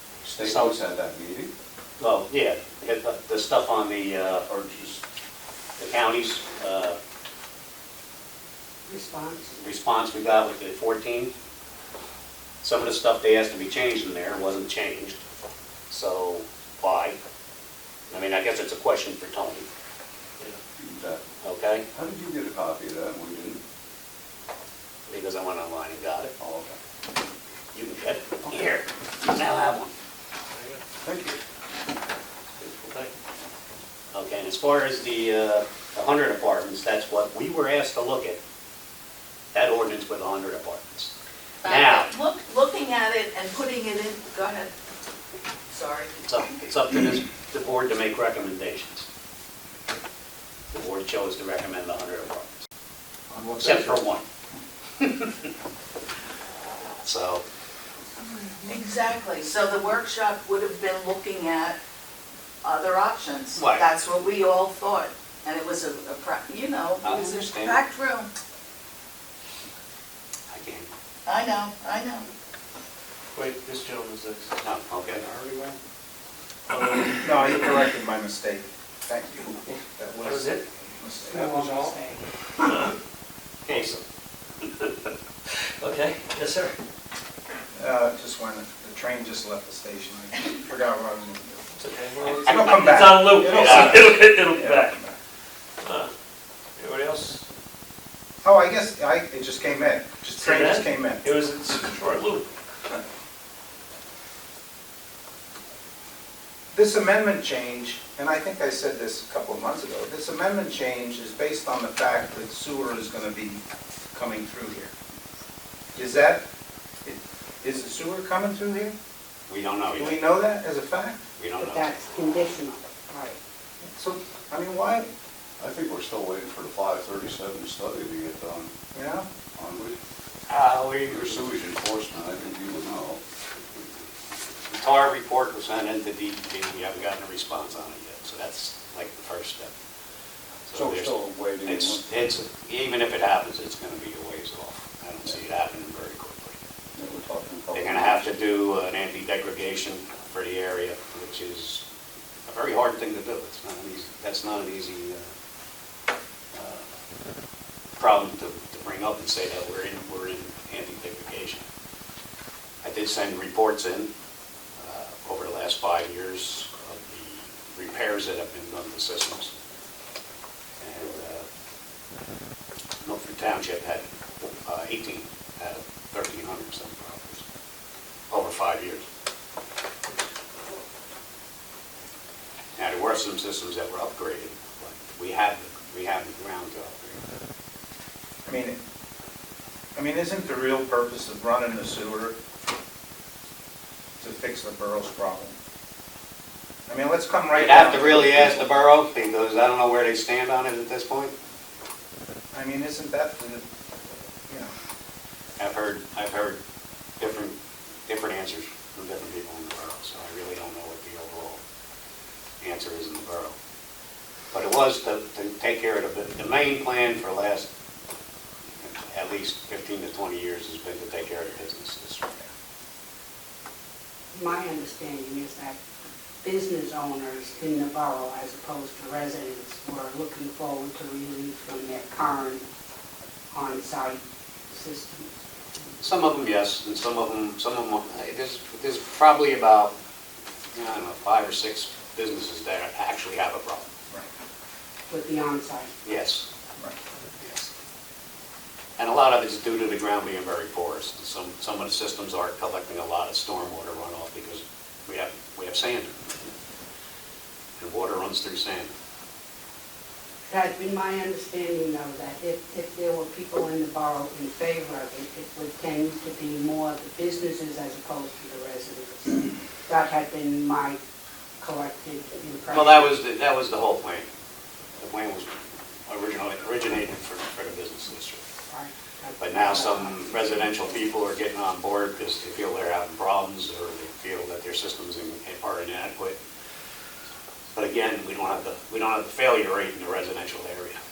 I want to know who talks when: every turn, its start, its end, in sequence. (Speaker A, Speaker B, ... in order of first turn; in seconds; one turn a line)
Speaker A: 0.2-1.5
Speaker B: 0.4-0.8
Speaker B: 2.0-4.5
Speaker A: 4.5-4.9
Speaker B: 5.8-7.0
Speaker C: 8.9-9.6
Speaker B: 9.6-11.3
Speaker B: 12.6-15.2
Speaker B: 15.9-17.2
Speaker B: 18.1-19.7
Speaker A: 20.8-21.2
Speaker B: 21.4-21.9
Speaker A: 21.9-23.6
Speaker B: 25.1-26.3
Speaker A: 26.4-26.8
Speaker B: 27.7-29.9
Speaker A: 28.4-28.7
Speaker A: 31.0-31.4
Speaker D: 32.6-33.1
Speaker B: 34.1-38.4
Speaker B: 39.5-41.1
Speaker E: 41.6-44.7
Speaker B: 41.6-42.1
Speaker E: 45.7-46.2
Speaker B: 46.2-49.1
Speaker B: 50.7-52.5
Speaker F: 53.3-54.0
Speaker B: 53.6-54.2
Speaker B: 55.0-55.3
Speaker B: 57.0-57.4
Speaker E: 58.6-61.8
Speaker E: 62.6-68.3
Speaker B: 63.6-63.9
Speaker B: 67.0-67.8
Speaker B: 70.5-70.9
Speaker E: 71.3-72.3
Speaker D: 73.3-74.5
Speaker B: 74.6-75.2
Speaker D: 76.7-77.7
Speaker F: 77.2-81.9
Speaker D: 80.2-80.6
Speaker C: 81.2-82.2
Speaker B: 83.7-84.0
Speaker D: 85.8-86.8
Speaker F: 87.7-91.6
Speaker D: 91.8-95.0
Speaker F: 92.3-95.1
Speaker B: 93.5-94.0
Speaker D: 95.8-96.1
Speaker D: 96.8-97.4
Speaker F: 98.4-101.2
Speaker D: 100.3-102.5
Speaker F: 106.7-113.6
Speaker F: 114.1-114.9
Speaker F: 116.0-116.4
Speaker F: 117.0-119.0
Speaker B: 119.5-120.2
Speaker F: 119.9-121.2
Speaker B: 121.4-121.9
Speaker C: 121.6-123.4
Speaker F: 123.8-125.1
Speaker A: 125.6-128.7
Speaker F: 128.9-129.3
Speaker A: 129.6-130.0
Speaker B: 130.5-131.4
Speaker A: 131.1-133.2
Speaker B: 134.7-139.7
Speaker B: 140.7-141.2
Speaker A: 140.7-142.0
Speaker B: 141.7-146.6
Speaker A: 147.0-148.2
Speaker B: 147.8-151.8
Speaker B: 152.5-155.2
Speaker B: 156.5-156.8
Speaker B: 158.0-161.7
Speaker B: 162.8-164.1
Speaker B: 164.8-169.5
Speaker B: 170.8-171.5
Speaker B: 173.0-177.4
Speaker B: 178.3-179.1
Speaker B: 182.8-187.2
Speaker F: 188.4-188.8
Speaker F: 189.9-192.4
Speaker F: 194.2-195.5
Speaker F: 196.9-198.7
Speaker B: 197.5-201.3
Speaker F: 202.5-203.6
Speaker B: 205.6-206.6
Speaker B: 207.2-207.6
Speaker B: 208.1-211.6
Speaker B: 212.6-213.6
Speaker B: 214.5-217.7
Speaker B: 218.8-222.3
Speaker C: 224.3-225.8
Speaker C: 226.4-232.6
Speaker C: 233.5-235.4
Speaker B: 236.0-239.9
Speaker B: 240.7-243.9
Speaker C: 245.1-245.9
Speaker B: 246.0-246.5
Speaker B: 247.4-247.7
Speaker B: 249.0-256.3
Speaker B: 257.8-258.9
Speaker C: 260.5-271.0
Speaker C: 271.6-273.2
Speaker B: 272.7-274.3
Speaker B: 275.0-275.5
Speaker B: 276.1-278.4
Speaker C: 278.7-280.9
Speaker B: 279.4-286.4
Speaker B: 287.8-291.0